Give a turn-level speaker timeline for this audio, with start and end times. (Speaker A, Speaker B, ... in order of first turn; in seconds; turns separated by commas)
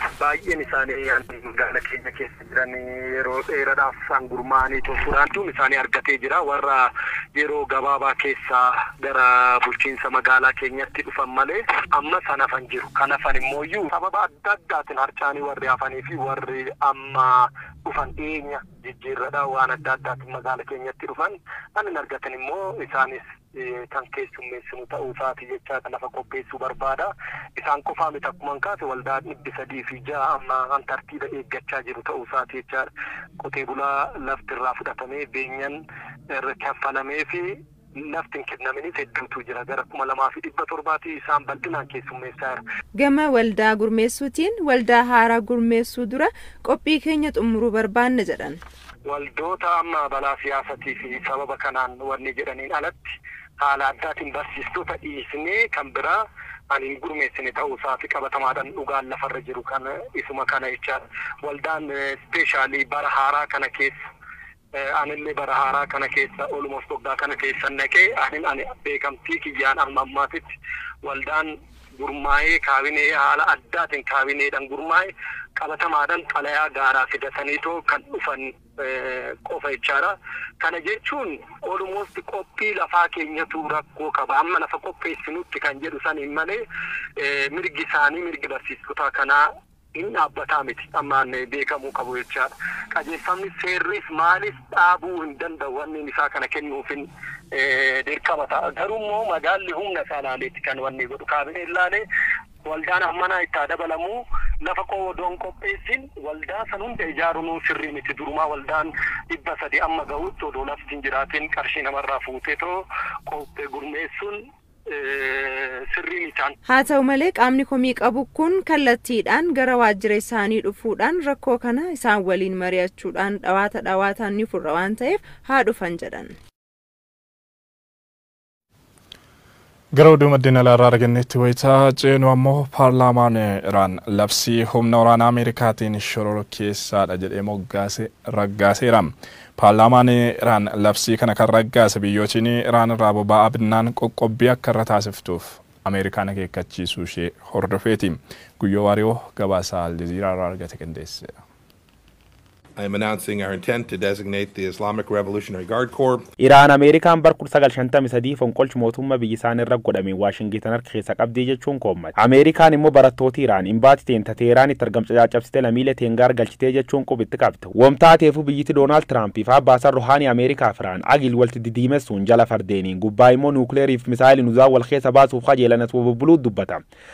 Speaker A: 0.2-32.9, Speaker A: 33.4-35.8, Speaker A: 36.3-42.6, Speaker B: 43.0-48.6, Speaker A: 49.1-56.2, Speaker A: 56.7-63.9, Speaker A: 64.8-70.5, Speaker A: 71.0-86.6, Speaker A: 87.2-89.4, Speaker A: 90.0-102.0, Speaker A: 102.7-114.4, Speaker A: 114.9-116.5, Speaker B: 116.7-126.3, Speaker C: 129.9-151.4, Speaker D: 152.8-156.3, Speaker E: 156.4-176.8